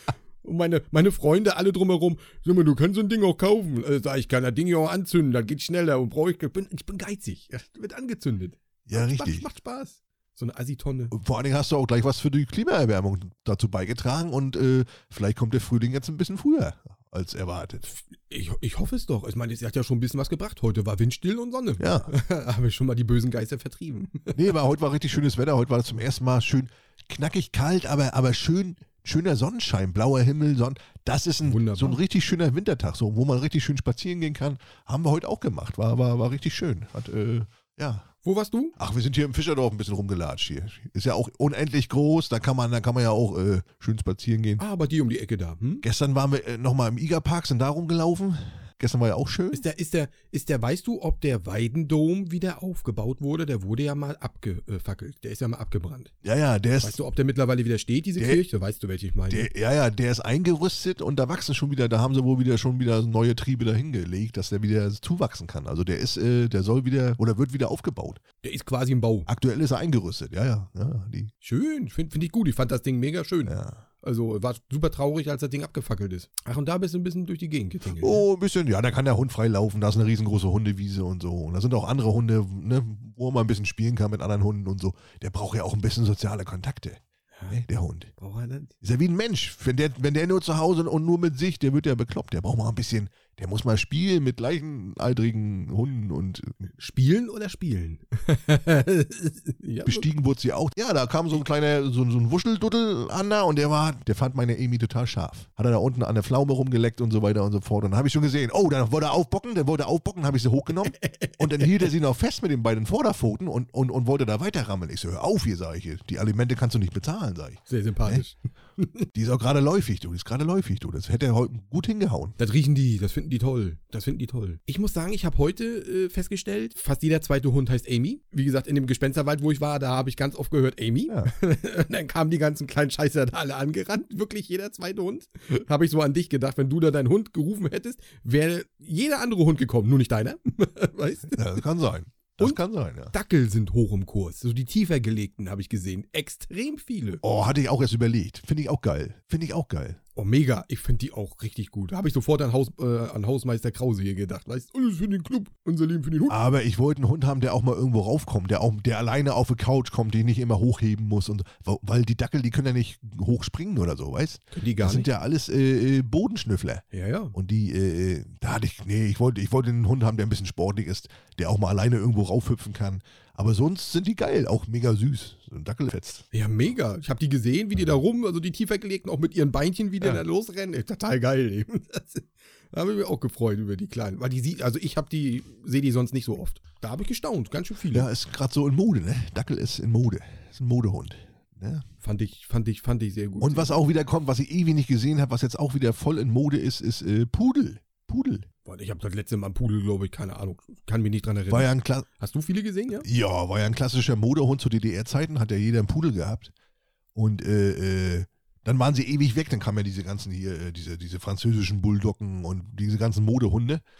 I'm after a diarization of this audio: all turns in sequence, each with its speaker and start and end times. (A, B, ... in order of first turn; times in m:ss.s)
0:00.4-0:11.1 A
0:08.8-0:09.5 B
0:11.1-0:17.9 B
0:18.1-0:24.5 A
0:21.8-0:22.1 B
0:24.3-0:38.1 B
0:31.4-0:32.0 A
0:38.2-0:38.7 A
0:38.8-0:44.6 B
0:44.6-0:45.8 A
0:45.8-0:49.6 B
0:49.5-0:56.1 A
0:56.2-0:57.0 B
0:56.8-0:59.5 A
0:58.2-0:58.4 B
0:59.3-1:08.2 B
1:08.4-1:09.3 A
1:09.3-1:11.3 B
1:11.4-1:18.2 A
1:13.4-1:13.8 B
1:18.0-1:28.1 B
1:27.3-1:27.6 A
1:28.2-1:28.7 A
1:28.8-1:36.6 B
1:36.8-1:40.1 A
1:39.8-1:58.2 B
1:51.0-1:51.8 A
1:57.7-1:59.0 A
1:59.1-2:02.4 B
2:02.4-2:21.6 A
2:21.3-2:23.1 B
2:23.1-2:27.2 A
2:27.2-2:30.0 B
2:30.2-2:36.4 A
2:36.3-2:56.3 B
2:44.5-2:45.1 A
2:46.9-2:47.3 A
2:56.3-3:08.1 A
3:07.9-3:11.8 B
3:12.0-3:13.8 A
3:13.4-3:18.4 B
3:18.6-3:23.1 A
3:21.5-3:22.0 B
3:23.0-3:26.5 B
3:27.1-3:33.8 B